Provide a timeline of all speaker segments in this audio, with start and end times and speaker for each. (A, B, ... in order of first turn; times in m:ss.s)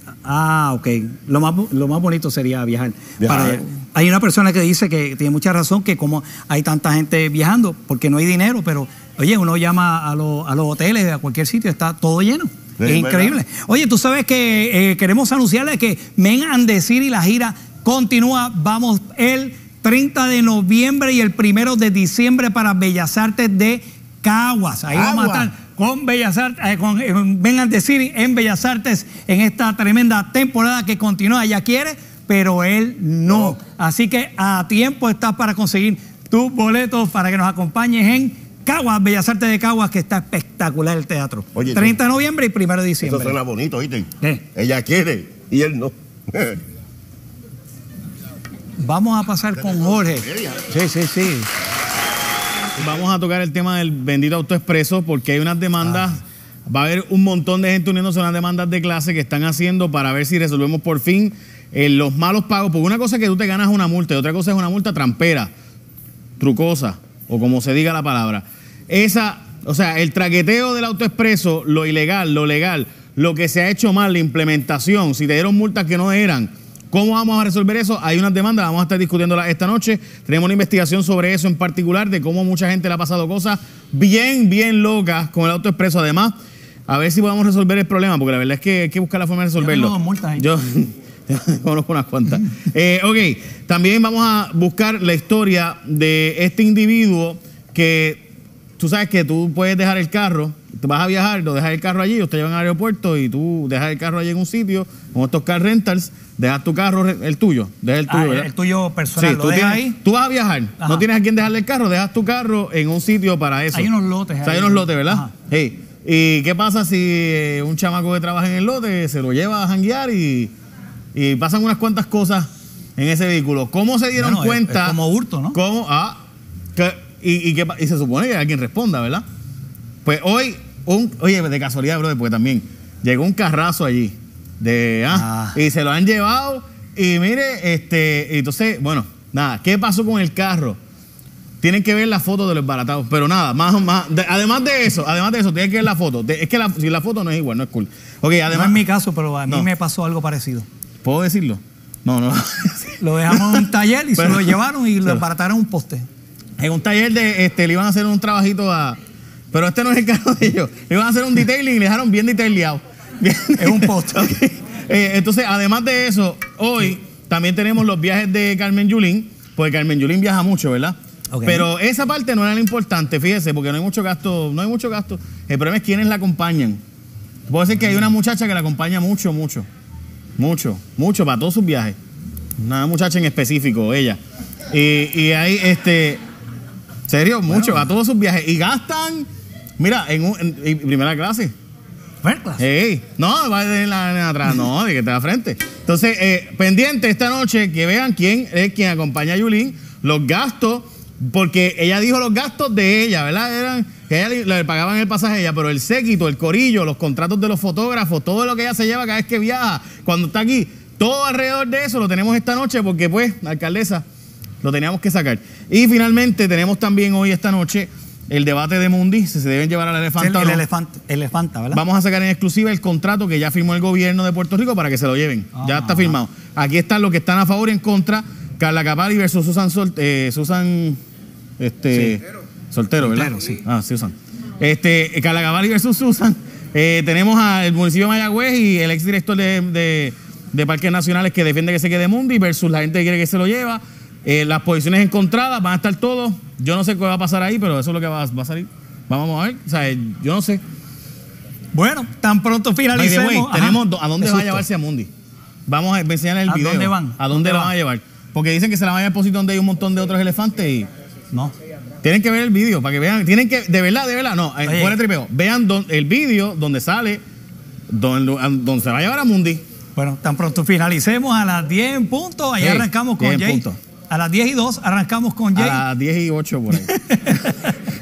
0:00.2-0:43.4 A
0:03.2-0:03.6 B
0:12.8-0:13.4 B
0:24.9-0:25.5 B
0:33.3-0:33.6 B
0:41.6-0:42.0 B
0:43.0-0:46.6 B
0:48.8-0:51.5 A
0:49.6-0:50.6 B
0:52.8-1:05.5 C
0:55.8-0:56.1 A
1:06.4-1:26.4 C
1:26.9-1:38.2 C
1:29.6-1:30.5 A
1:38.8-1:48.5 C
1:48.1-1:50.0 A
1:49.2-1:53.9 C
1:50.8-1:51.1 A
1:53.7-1:55.3 A
1:54.4-2:00.5 C
2:01.2-2:05.0 C
2:04.2-2:05.6 A
2:05.5-2:06.2 C
2:06.8-2:09.2 C
2:10.0-2:20.8 C
2:15.1-2:15.6 A
2:21.6-2:28.8 C
2:28.5-2:30.7 A
2:31.0-2:33.6 C
2:33.0-2:36.1 A
2:34.2-2:35.2 C
2:36.6-2:39.0 C
2:39.5-2:56.8 C
2:43.6-2:44.5 A
2:51.3-2:51.7 A
2:57.5-2:59.7 C
3:00.4-3:02.0 C
3:02.6-3:04.2 C
3:04.7-3:06.2 C
3:07.1-3:09.3 C
3:07.5-3:07.9 A
3:09.8-3:11.5 C
3:12.2-3:12.6 A
3:12.6-3:34.0 C
3:34.6-3:40.6 C
3:40.2-3:41.8 A
3:41.7-3:51.0 C
3:45.5-3:46.2 A
3:51.6-4:10.6 C
3:51.9-3:52.2 A
3:53.0-3:53.6 A
4:11.7-4:14.6 A
4:12.9-4:15.1 C
4:15.7-4:20.9 C
4:16.5-4:17.7 A
4:22.0-4:27.2 C
4:24.6-4:25.0 A
4:27.9-4:29.6 C
4:30.0-4:35.8 A
4:32.6-4:33.6 C
4:35.6-4:36.9 C
4:36.7-4:37.7 A